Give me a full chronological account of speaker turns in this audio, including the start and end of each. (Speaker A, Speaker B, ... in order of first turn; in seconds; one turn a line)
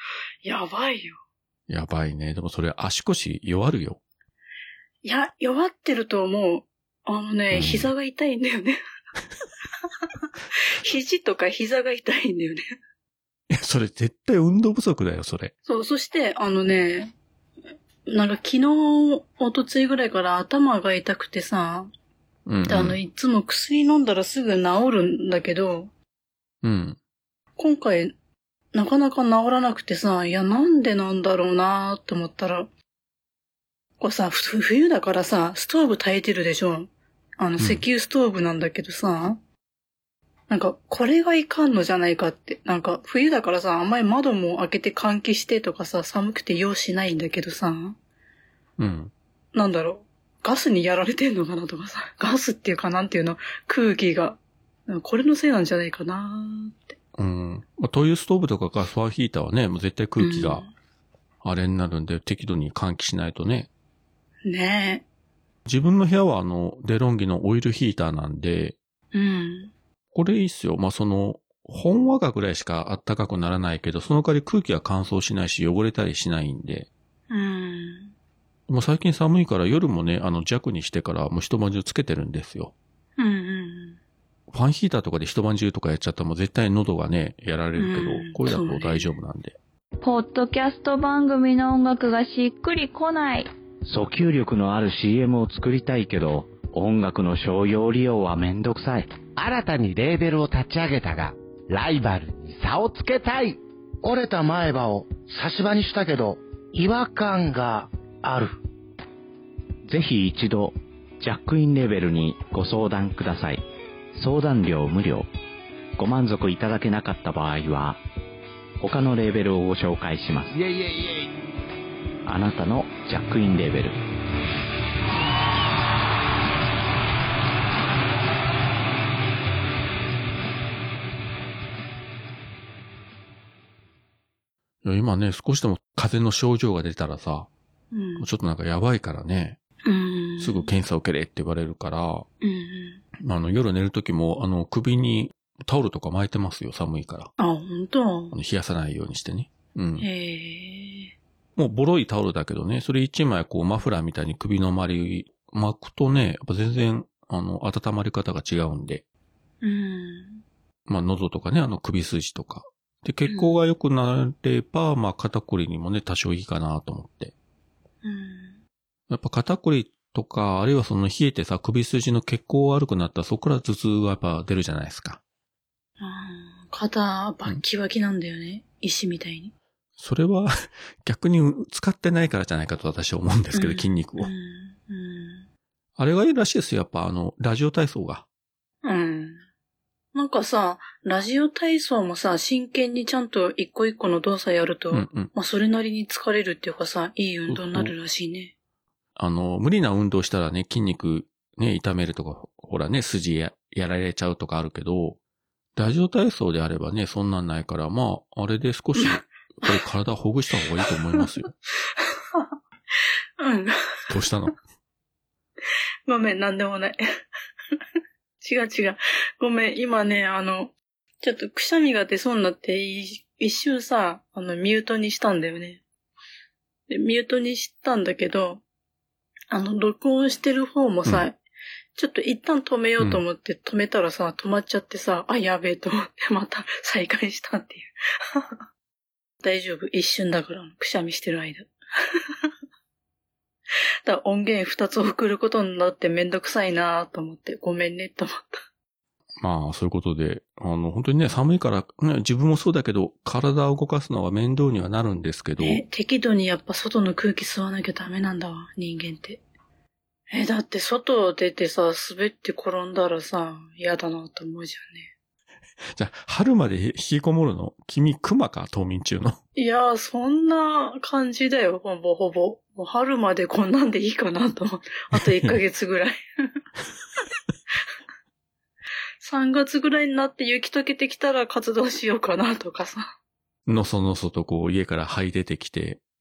Speaker A: 0.4-1.2
Speaker B: 1.7-4.0
Speaker A: 5.0-8.8
Speaker B: 7.5-7.9
Speaker A: 10.6-12.6
Speaker B: 13.5-15.5
Speaker A: 15.7-17.1
Speaker A: 18.1-21.9
Speaker B: 22.4-23.0
Speaker A: 22.7-25.9
Speaker B: 26.6-27.0
Speaker A: 27.6-28.1
Speaker A: 28.7-32.7
Speaker A: 34.0-39.4
Speaker B: 37.6-37.8
Speaker A: 40.5-48.0
Speaker B: 48.8-49.1
Speaker A: 49.5-57.0
Speaker B: 57.1-60.7
Speaker A: 60.2-60.7
Speaker B: 61.4-63.7
Speaker A: 64.5-65.0
Speaker B: 65.7-68.8
Speaker A: 69.1-69.7
Speaker B: 70.1-76.9
Speaker A: 77.3-78.1
Speaker B: 78.7-82.7
Speaker A: 83.2-84.0
Speaker B: 84.5-89.6
Speaker A: 87.8-89.1
Speaker C: 90.0-93.5
Speaker D: 93.9-99.1
Speaker E: 99.3-108.6
Speaker D: 109.9-113.6
Speaker D: 114.1-115.3
Speaker D: 116.0-118.0
Speaker D: 118.8-120.6
Speaker D: 122.2-124.0
Speaker B: 134.8-137.5
Speaker A: 137.9-138.3
Speaker B: 138.2-139.6
Speaker A: 139.8-140.7
Speaker B: 140.4-142.2
Speaker A: 142.4-143.0
Speaker B: 143.2-147.3
Speaker A: 147.4-148.3
Speaker B: 148.3-150.1
Speaker A: 150.0-151.1
Speaker B: 151.6-159.0
Speaker A: 159.6-160.4
Speaker B: 160.9-167.3
Speaker A: 163.3-163.6
Speaker A: 168.0-168.6
Speaker B: 169.1-175.2
Speaker A: 176.0-179.5
Speaker B: 180.0-184.3
Speaker A: 183.5-185.4
Speaker B: 186.0-188.2
Speaker A: 188.8-189.4
Speaker A: 190.1-198.5
Speaker B: 194.9-195.3
Speaker B: 197.5-197.9
Speaker B: 199.2-205.2
Speaker B: 205.8-211.5
Speaker A: 209.0-209.7
Speaker A: 210.9-211.2
Speaker A: 212.0-212.5
Speaker A: 213.4-213.7
Speaker B: 214.1-214.5
Speaker A: 216.1-217.0
Speaker A: 218.4-225.8
Speaker A: 226.9-228.6
Speaker A: 229.5-231.4
Speaker A: 231.9-238.5
Speaker A: 239.4-241.7
Speaker A: 244.0-248.6
Speaker B: 249.4-255.8
Speaker A: 255.6-259.4
Speaker A: 260.3-265.1
Speaker B: 265.9-269.4
Speaker A: 269.6-276.2
Speaker B: 275.1-275.6
Speaker A: 279.2-283.1
Speaker B: 283.6-286.0